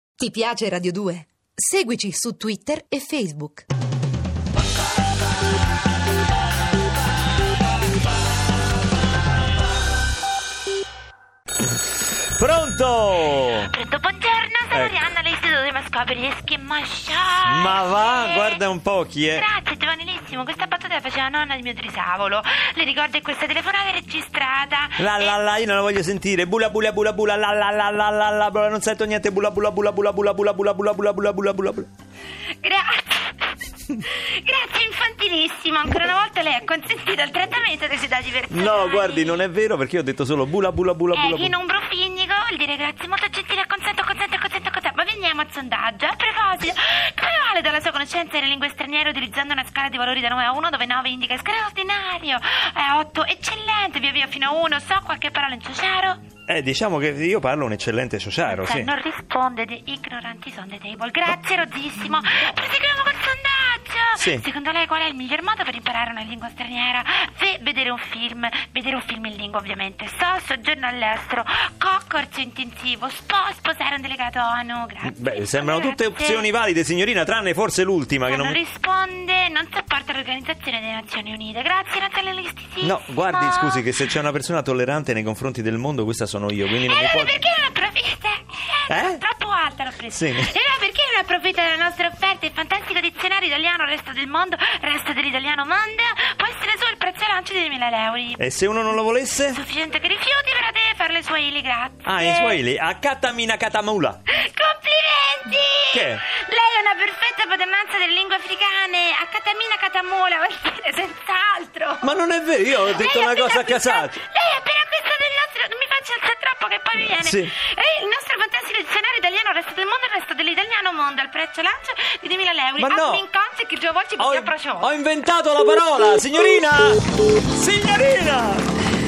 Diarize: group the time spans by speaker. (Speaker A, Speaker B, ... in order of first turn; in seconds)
Speaker A: 0.2-3.7
Speaker B: 12.4-13.7, 14.7-15.0, 17.4-19.4, 25.0-31.9, 38.5-41.5, 56.5-58.9, 64.2-64.4, 75.0-78.6, 82.8-87.4, 88.9-89.2, 90.1-90.5, 98.4-99.6, 102.1-104.2, 105.9-106.2, 112.0-114.2, 117.2-117.5, 122.8-123.2, 124.2-127.0, 127.5-128.7
Speaker C: 13.7-18.6, 19.4-25.4, 32.6-33.5, 34.0-39.4, 41.1-56.2, 58.5-76.5, 78.2-83.9, 86.8-98.4, 99.5-102.6, 104.3-112.1, 112.8-124.9